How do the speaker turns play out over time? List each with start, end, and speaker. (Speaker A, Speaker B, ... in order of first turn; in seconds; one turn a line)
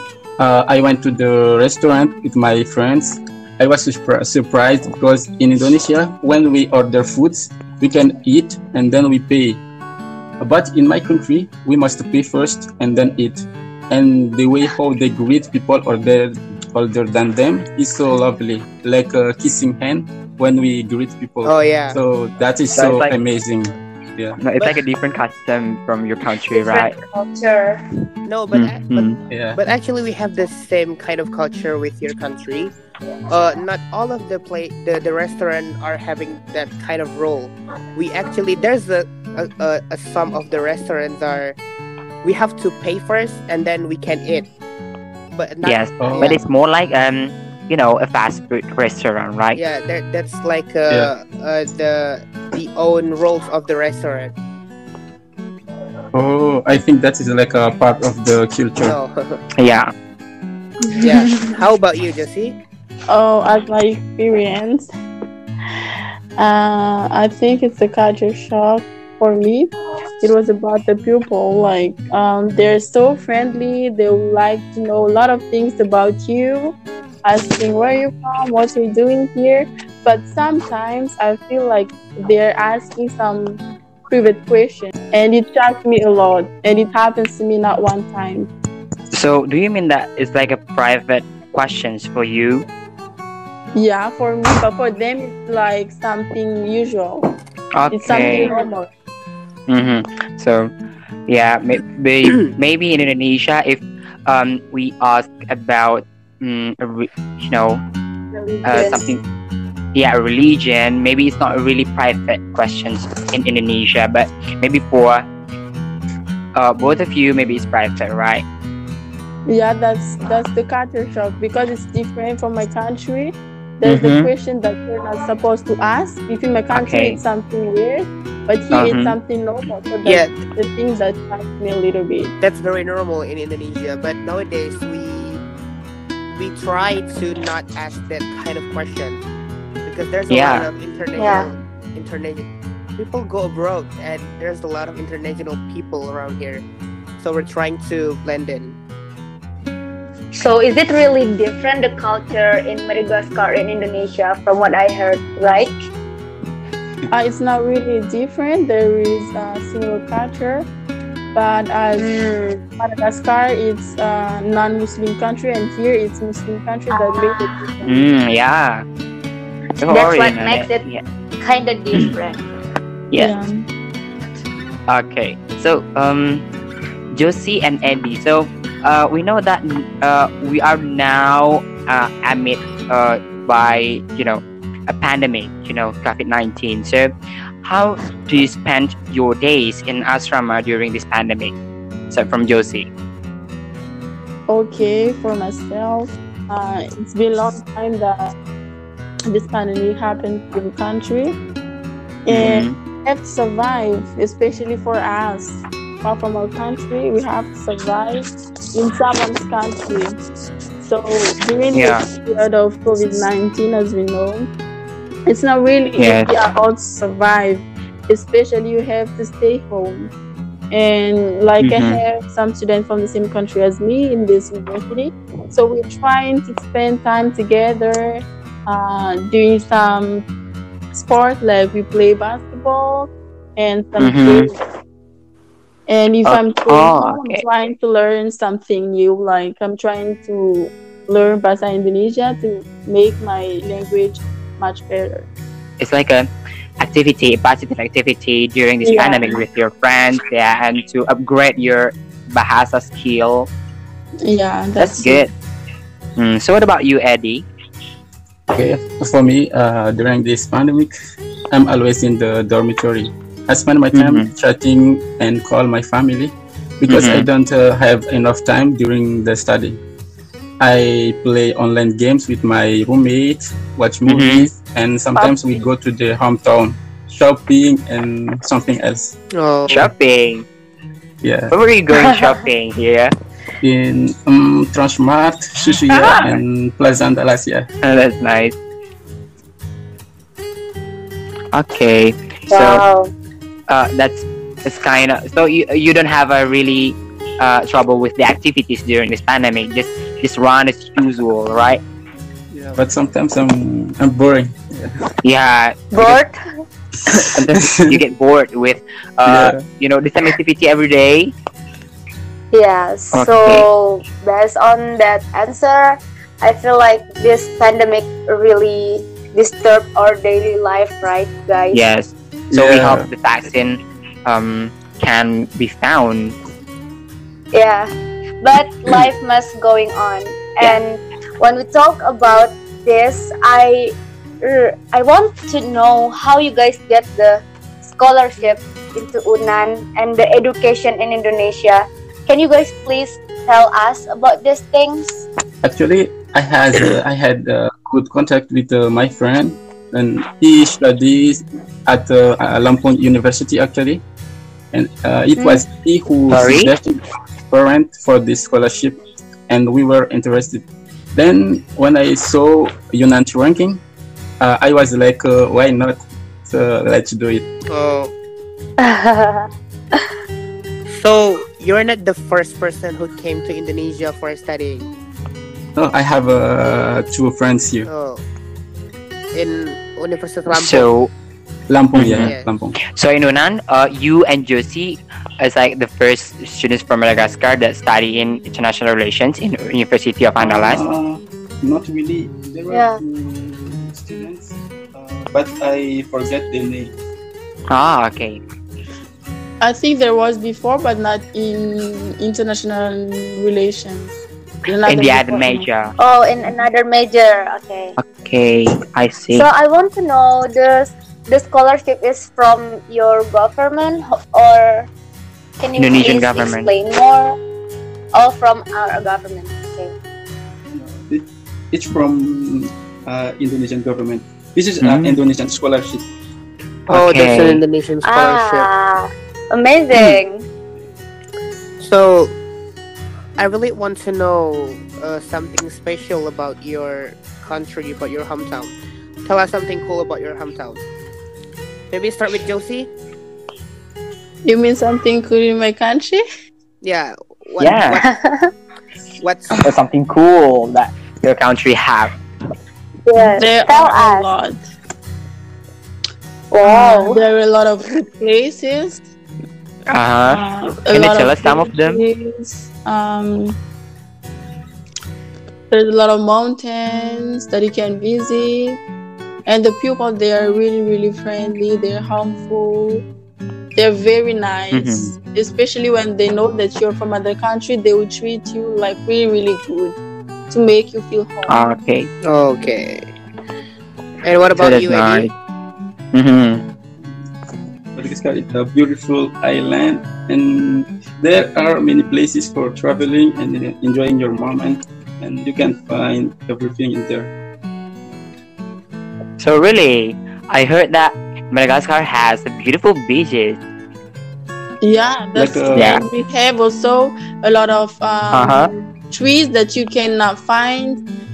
Speaker A: 0.4-9.6
Speaker A: 10.4-24.4
Speaker B: 21.4-22.0
Speaker C: 22.7-23.1
Speaker C: 24.4-27.0
Speaker D: 26.5-27.8
Speaker B: 28.3-32.7
Speaker C: 28.5-29.2
Speaker A: 29.3-29.6
Speaker B: 33.3-41.6
Speaker B: 42.2-44.5
Speaker B: 45.4-46.4
Speaker C: 45.6-49.6
Speaker A: 46.0-46.4
Speaker B: 49.5-54.3
Speaker A: 56.1-59.0
Speaker B: 58.8-59.4
Speaker C: 59.6-59.9
Speaker B: 61.0-62.6
Speaker E: 61.0-61.5
Speaker E: 63.1-64.9
Speaker E: 66.4-69.7
Speaker E: 70.2-88.5
Speaker C: 89.1-92.7
Speaker E: 93.7-97.3
Speaker C: 97.8-98.5
Speaker E: 97.9-98.9
Speaker D: 98.2-98.7
Speaker C: 99.7-100.7
Speaker C: 101.3-107.8
Speaker D: 108.3-109.0
Speaker C: 108.7-109.2
Speaker C: 109.9-115.3
Speaker C: 116.5-118.5
Speaker E: 119.5-132.3
Speaker C: 123.8-124.3
Speaker C: 126.7-127.2
Speaker C: 128.7-129.2
Speaker B: 130.0-130.3
Speaker B: 132.4-135.4
Speaker B: 136.3-139.2
Speaker B: 139.8-146.7
Speaker C: 140.3-140.7
Speaker D: 141.2-141.5
Speaker B: 147.2-148.8
Speaker D: 150.3-155.9
Speaker E: 157.1-160.7
Speaker E: 161.3-162.3
Speaker D: 162.0-162.6
Speaker E: 162.8-168.1
Speaker D: 166.9-167.6
Speaker C: 167.9-168.8
Speaker C: 169.8-171.0
Speaker D: 169.9-170.8
Speaker D: 171.4-172.4
Speaker E: 173.2-173.5
Speaker C: 174.9-176.4
Speaker C: 177.1-191.6
Speaker C: 192.1-192.9
Speaker E: 194.5-198.3
Speaker E: 199.3-201.4
Speaker E: 202.2-210.2
Speaker C: 202.3-202.8
Speaker E: 210.8-214.5
Speaker C: 211.7-212.0
Speaker E: 215.3-220.1
Speaker C: 216.0-216.3
Speaker E: 220.7-230.2
Speaker C: 221.6-222.0
Speaker E: 230.9-234.6
Speaker C: 234.0-234.5
Speaker E: 235.9-245.3
Speaker C: 236.2-237.4
Speaker C: 245.8-246.3
Speaker C: 246.8-253.5
Speaker E: 248.8-249.4
Speaker E: 254.2-255.3
Speaker C: 254.8-255.3
Speaker C: 256.2-257.5
Speaker A: 258.5-260.9
Speaker A: 261.5-269.8
Speaker C: 263.9-264.3
Speaker C: 266.9-267.3
Speaker A: 270.6-279.1
Speaker C: 274.1-274.5
Speaker E: 275.1-275.6
Speaker B: 279.3-279.9
Speaker C: 279.7-280.5
Speaker A: 281.2-281.5
Speaker C: 281.5-283.1
Speaker A: 283.6-287.7
Speaker C: 285.9-286.4
Speaker C: 287.8-288.6
Speaker C: 291.5-292.8
Speaker D: 292.5-293.1
Speaker C: 293.7-301.8
Speaker A: 302.5-304.9
Speaker C: 305.2-306.2
Speaker D: 305.9-306.4
Speaker C: 307.2-311.3
Speaker A: 309.2-309.6
Speaker D: 312.5-321.8
Speaker C: 313.1-313.7
Speaker C: 321.7-326.4
Speaker A: 322.5-323.1
Speaker D: 327.5-327.9
Speaker D: 328.4-345.2
Speaker A: 345.6-354.0
Speaker A: 354.7-363.8
Speaker C: 356.3-356.7
Speaker A: 364.4-367.5
Speaker B: 367.7-368.1
Speaker D: 368.8-370.1
Speaker B: 370.9-374.9
Speaker A: 375.8-377.9
Speaker B: 377.9-378.2
Speaker B: 379.3-380.9
Speaker C: 380.5-381.1
Speaker A: 381.7-382.8
Speaker C: 381.9-382.3
Speaker B: 382.1-382.5
Speaker C: 382.9-390.8
Speaker A: 390.4-396.9
Speaker D: 392.7-393.0
Speaker C: 397.7-398.4
Speaker E: 399.6-405.7
Speaker C: 404.9-405.9
Speaker D: 406.0-408.0
Speaker C: 408.0-409.5
Speaker D: 409.3-414.9
Speaker D: 415.6-417.4
Speaker C: 415.8-416.7
Speaker D: 418.1-419.9
Speaker A: 420.7-426.1
Speaker C: 424.8-425.2
Speaker C: 426.9-427.6
Speaker B: 426.9-428.7
Speaker D: 428.0-430.5
Speaker C: 429.9-430.2
Speaker B: 431.8-432.4
Speaker B: 433.4-440.8
Speaker B: 441.9-442.9
Speaker E: 444.4-446.2
Speaker B: 446.8-448.1
Speaker C: 447.6-448.0
Speaker D: 448.0-448.5
Speaker B: 449.2-449.6
Speaker C: 449.6-452.1
Speaker D: 453.1-454.3
Speaker E: 453.2-454.6
Speaker D: 456.5-457.2
Speaker E: 456.6-459.0
Speaker C: 459.9-460.4
Speaker E: 460.3-463.6
Speaker C: 460.9-462.0
Speaker E: 465.7-468.8
Speaker E: 469.5-473.0
Speaker E: 473.8-480.0
Speaker C: 474.7-475.1
Speaker E: 480.5-481.6
Speaker C: 481.5-482.1
Speaker B: 482.2-483.1
Speaker B: 484.2-485.3
Speaker C: 484.6-485.3
Speaker C: 486.1-486.6
Speaker A: 487.9-497.3
Speaker C: 499.4-503.6
Speaker E: 504.8-511.0
Speaker A: 505.4-506.0
Speaker C: 505.8-506.0
Speaker C: 508.3-508.7